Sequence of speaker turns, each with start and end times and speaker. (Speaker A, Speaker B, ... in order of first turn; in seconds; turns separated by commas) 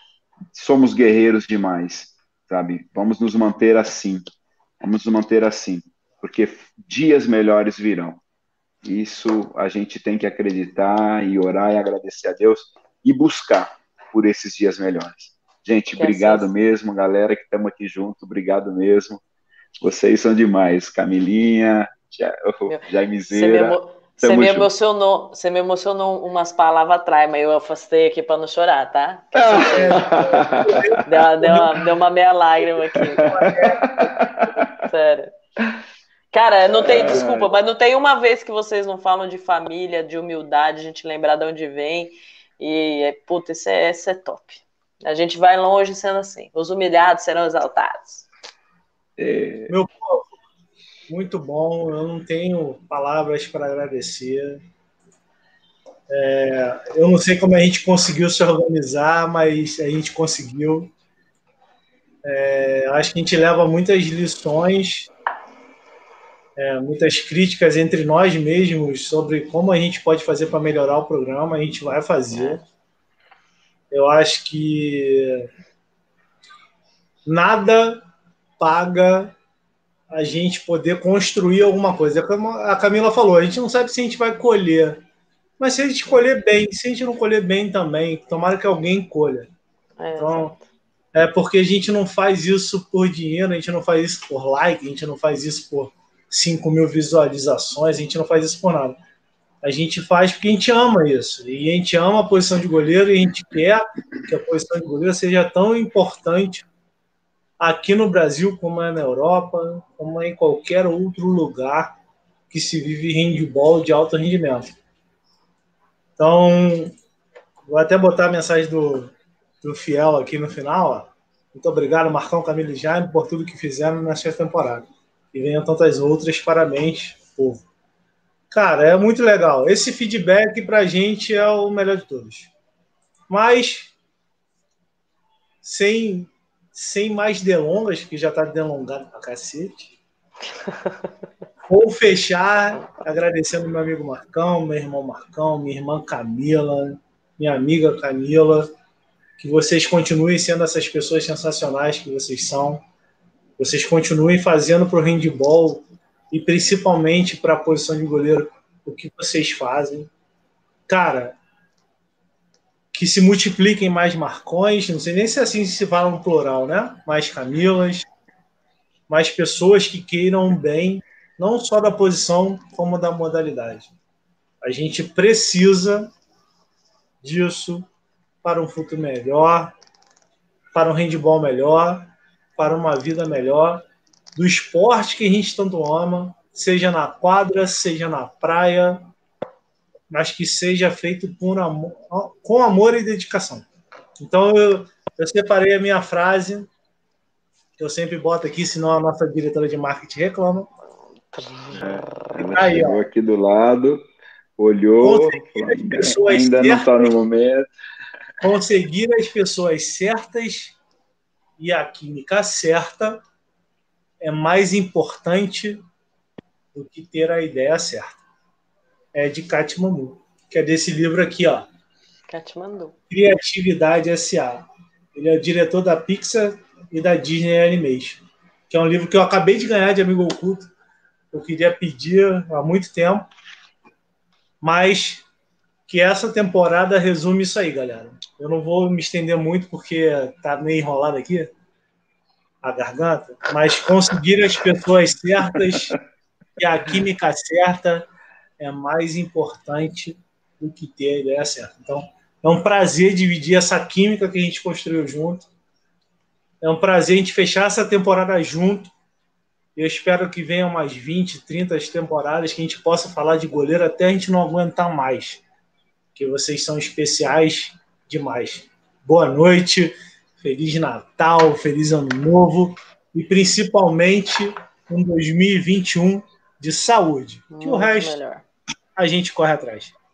Speaker A: 0.5-4.2, Speaker A: 4.8-8.2, Speaker A: 8.8-19.2, Speaker B: 16.0-16.5, Speaker A: 19.8-24.7, Speaker B: 22.7-30.0, Speaker A: 29.3-31.0, Speaker C: 29.5-31.8, Speaker B: 31.1-33.3, Speaker A: 33.0-34.9, Speaker C: 33.2-33.9, Speaker B: 34.9-35.3, Speaker B: 36.3-48.3, Speaker A: 36.9-37.5, Speaker A: 49.2-49.7, Speaker C: 49.7-50.4, Speaker C: 51.1-54.6, Speaker C: 56.1-60.9, Speaker C: 62.2-65.1, Speaker C: 66.6-72.6, Speaker C: 73.9-75.5, Speaker C: 77.3-78.0, Speaker C: 78.6-79.3, Speaker C: 80.1-85.0, Speaker C: 85.6-89.5, Speaker B: 90.0-90.6, Speaker C: 90.2-90.5, Speaker C: 91.1-99.0, Speaker C: 99.6-106.7, Speaker C: 107.6-112.0, Speaker C: 112.5-114.8, Speaker C: 116.2-117.0, Speaker C: 117.7-119.1, Speaker C: 119.6-127.6, Speaker C: 128.5-132.5, Speaker C: 133.3-133.9, Speaker C: 135.6-140.0, Speaker C: 141.7-148.7, Speaker C: 149.4-152.8, Speaker C: 153.6-160.1, Speaker C: 160.9-161.4, Speaker C: 162.9-168.1, Speaker C: 169.1-173.9, Speaker C: 174.6-176.1, Speaker C: 177.2-177.9, Speaker C: 178.4-179.8, Speaker C: 180.7-183.8, Speaker C: 184.4-189.1, Speaker C: 190.1-193.7, Speaker C: 194.2-196.7, Speaker C: 197.8-200.7, Speaker B: 201.3-202.2, Speaker A: 201.7-204.0, Speaker C: 202.4-203.1, Speaker A: 204.6-207.7, Speaker C: 205.0-207.2, Speaker C: 208.4-210.8, Speaker C: 211.6-213.2, Speaker C: 214.2-215.8, Speaker C: 216.7-218.2, Speaker C: 219.1-221.7, Speaker B: 222.3-222.9, Speaker C: 223.1-230.7, Speaker C: 231.3-233.3, Speaker C: 234.6-235.2, Speaker C: 235.9-241.5, Speaker C: 242.6-246.0, Speaker C: 246.6-248.1, Speaker C: 248.6-255.5, Speaker C: 256.6-258.9, Speaker C: 259.8-265.4, Speaker C: 266.1-278.2, Speaker B: 277.5-278.4, Speaker C: 279.0-279.9